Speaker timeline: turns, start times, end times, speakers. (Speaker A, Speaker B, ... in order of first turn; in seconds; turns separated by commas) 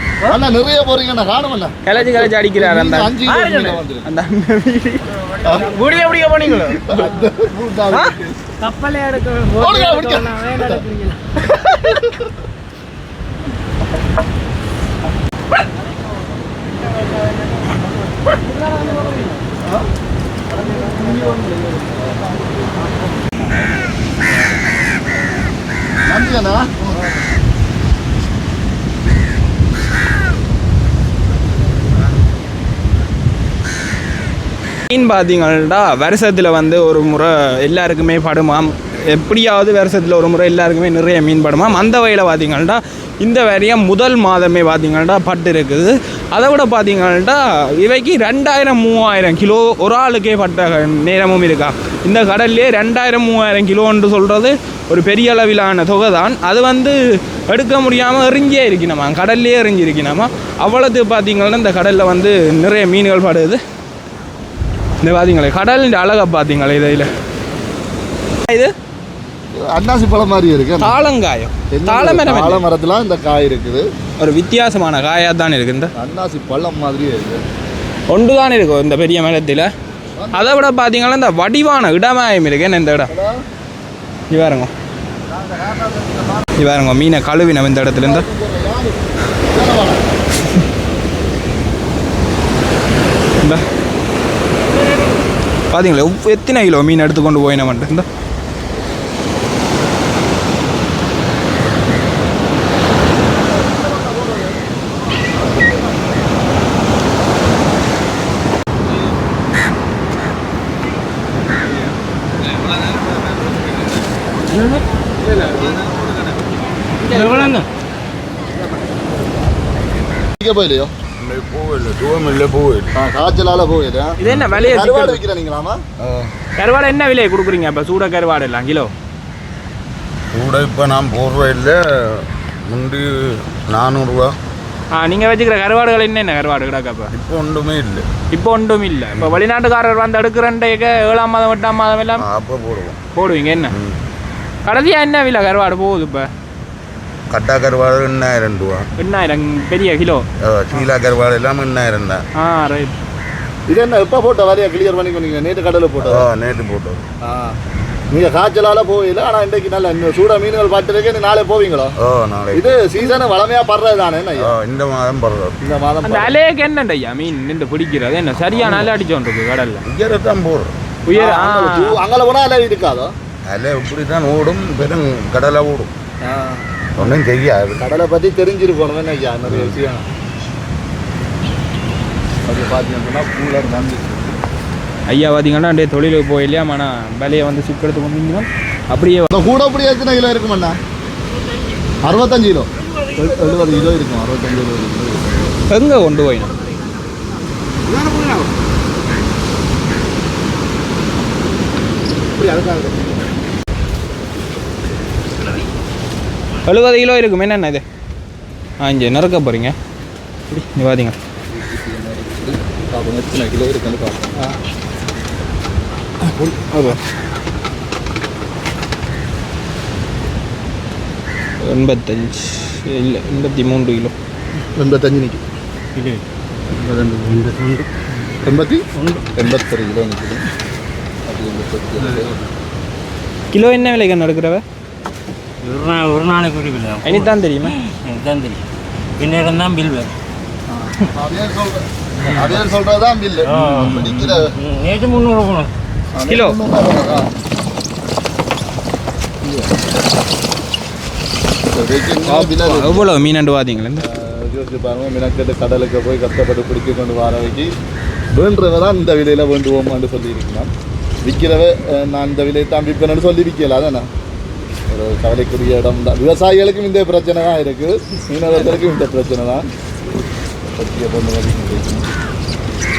Speaker A: 0.3-4.1, Speaker B: 1.9-3.2, Speaker B: 4.0-5.1, Speaker A: 5.4-5.9, Speaker C: 5.9-6.6, Speaker A: 6.7-8.4, Speaker C: 8.6-10.9, Speaker A: 9.5-10.9, Speaker A: 26.1-26.7, Speaker B: 34.9-63.6, Speaker B: 65.0-67.1, Speaker B: 68.5-68.7, Speaker A: 69.6-71.0, Speaker B: 70.8-72.6, Speaker A: 71.7-73.8, Speaker B: 74.2-75.9, Speaker A: 76.0-77.4, Speaker B: 78.1-79.7, Speaker A: 80.2-80.7, Speaker B: 80.3-83.1, Speaker A: 83.1-83.4, Speaker B: 84.3-84.7, Speaker A: 85.3-86.4, Speaker B: 86.6-88.2, Speaker A: 87.9-90.1, Speaker B: 95.7-98.0, Speaker D: 114.5-114.8, Speaker B: 115.2-116.3, Speaker D: 117.0-117.7, Speaker B: 117.1-117.4, Speaker A: 120.4-120.9, Speaker E: 121.2-123.0, Speaker A: 122.9-125.8, Speaker B: 124.2-125.2, Speaker E: 124.2-124.5, Speaker E: 126.0-126.3, Speaker B: 126.6-128.9, Speaker E: 130.3-133.1, Speaker E: 133.7-134.3, Speaker B: 134.9-137.1, Speaker E: 137.1-138.1, Speaker B: 138.3-142.2, Speaker E: 142.2-143.0, Speaker B: 143.2-143.7, Speaker E: 143.7-144.0, Speaker B: 144.7-146.3, Speaker E: 147.3-148.8, Speaker B: 149.0-150.9, Speaker E: 150.4-152.2, Speaker B: 152.4-152.9, Speaker A: 153.7-156.3, Speaker E: 156.0-157.1, Speaker A: 157.2-157.6, Speaker A: 158.1-161.9, Speaker E: 162.0-162.7, Speaker A: 162.5-164.6, Speaker E: 164.4-165.6, Speaker A: 165.6-166.4, Speaker B: 166.0-169.8, Speaker E: 168.5-168.9, Speaker E: 169.9-170.7, Speaker B: 171.1-172.0, Speaker A: 171.1-173.1, Speaker E: 173.5-175.9, Speaker A: 176.2-176.7, Speaker E: 177.0-177.9, Speaker A: 177.8-180.1, Speaker E: 179.5-179.8, Speaker A: 182.5-184.4, Speaker B: 185.1-189.3, Speaker A: 189.3-190.8, Speaker A: 192.1-195.6, Speaker B: 195.7-196.5, Speaker B: 206.7-207.8, Speaker B: 208.8-209.8, Speaker B: 210.5-211.2, Speaker A: 211.5-214.5, Speaker B: 216.4-217.0, Speaker B: 221.6-224.1, Speaker A: 224.8-225.4, Speaker D: 226.0-227.9, Speaker A: 228.4-228.8, Speaker D: 229.0-229.3, Speaker A: 229.4-230.4, Speaker A: 231.3-232.4, Speaker D: 232.0-232.2, Speaker B: 233.5-234.6, Speaker D: 235.6-237.3, Speaker B: 237.0-237.7, Speaker D: 238.0-238.6, Speaker D: 239.2-240.1, Speaker A: 240.7-244.5, Speaker D: 243.4-245.7, Speaker A: 246.2-247.3, Speaker B: 246.3-246.6, Speaker A: 249.4-249.7, Speaker A: 251.7-253.2, Speaker B: 252.2-254.0, Speaker A: 254.1-257.7, Speaker A: 258.3-260.7, Speaker A: 261.2-264.1, Speaker A: 264.9-269.7, Speaker A: 270.8-272.0